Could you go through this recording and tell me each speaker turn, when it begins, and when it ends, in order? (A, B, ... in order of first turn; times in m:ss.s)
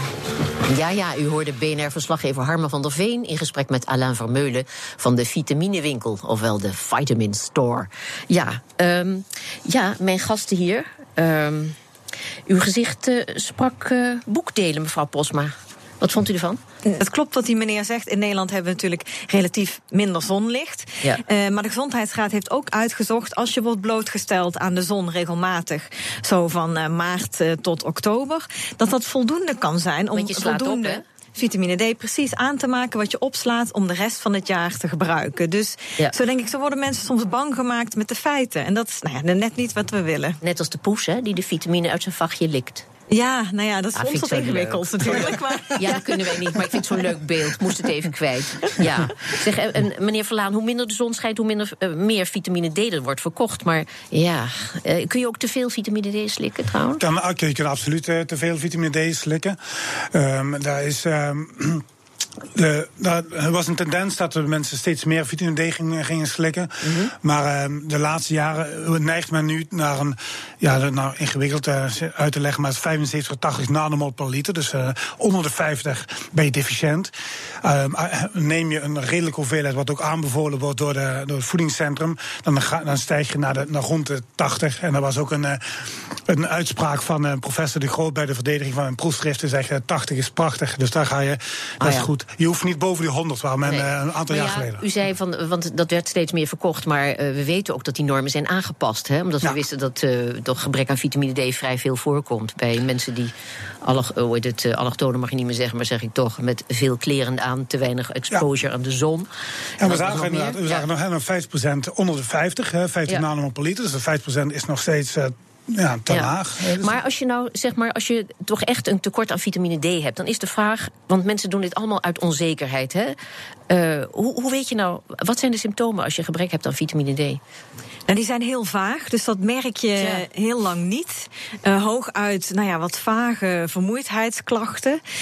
0:00.6-0:11.8 A
0:12.5-0:16.6 A
0:16.8-0:40.4 B
0:30.1-0:31.0 A
0:40.4-0:42.8 A
0:43.1-0:47.1 B
0:44.0-0:57.0 A
0:57.0-0:59.6 C
1:00.1-1:01.8 C
1:02.5-1:17.1 C
1:06.8-1:07.1 A
1:17.6-1:25.6 C
1:26.3-1:34.8 C
1:31.8-1:32.1 A
1:33.6-1:43.3 A
1:43.8-1:49.3 A
1:49.8-1:57.0 C
1:49.8-1:50.8 A
1:56.1-2:03.2 A
2:03.7-2:07.4 A
2:08.1-2:15.0 B
2:10.0-2:10.2 A